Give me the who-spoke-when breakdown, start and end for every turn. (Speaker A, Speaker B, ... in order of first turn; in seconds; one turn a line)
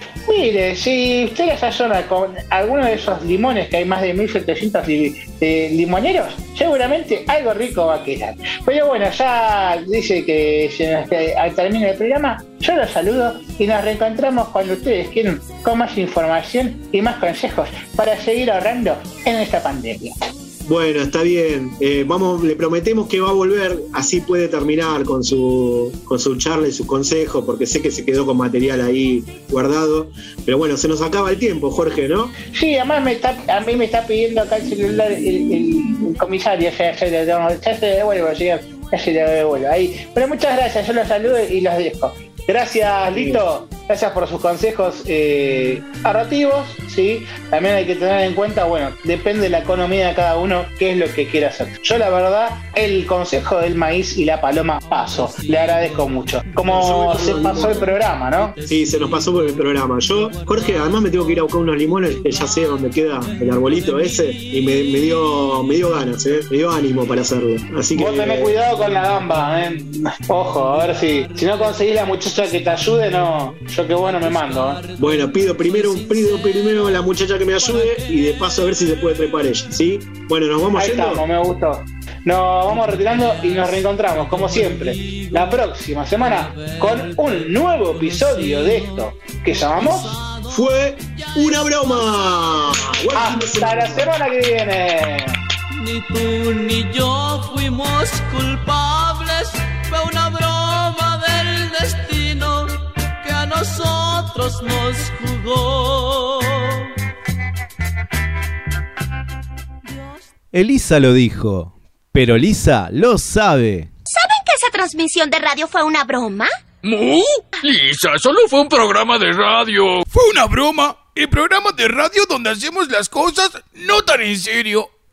Speaker A: 0.3-20.1
Speaker B: 20.7-32.3
Speaker A: 32.5-58.6
Speaker B: 56.7-57.9
Speaker B: 58.6-68.5
Speaker A: 67.9-74.8
Speaker B: 75.0-81.2
Speaker A: 80.7-90.2
Speaker B: 90.5-94.1
Speaker A: 93.1-95.4
Speaker C: 95.8-102.7
Speaker C: 103.2-106.2
Speaker D: 110.5-113.9
Speaker E: 114.1-116.5
Speaker F: 116.8-120.0
Speaker G: 120.1-122.6
Speaker G: 123.9-124.6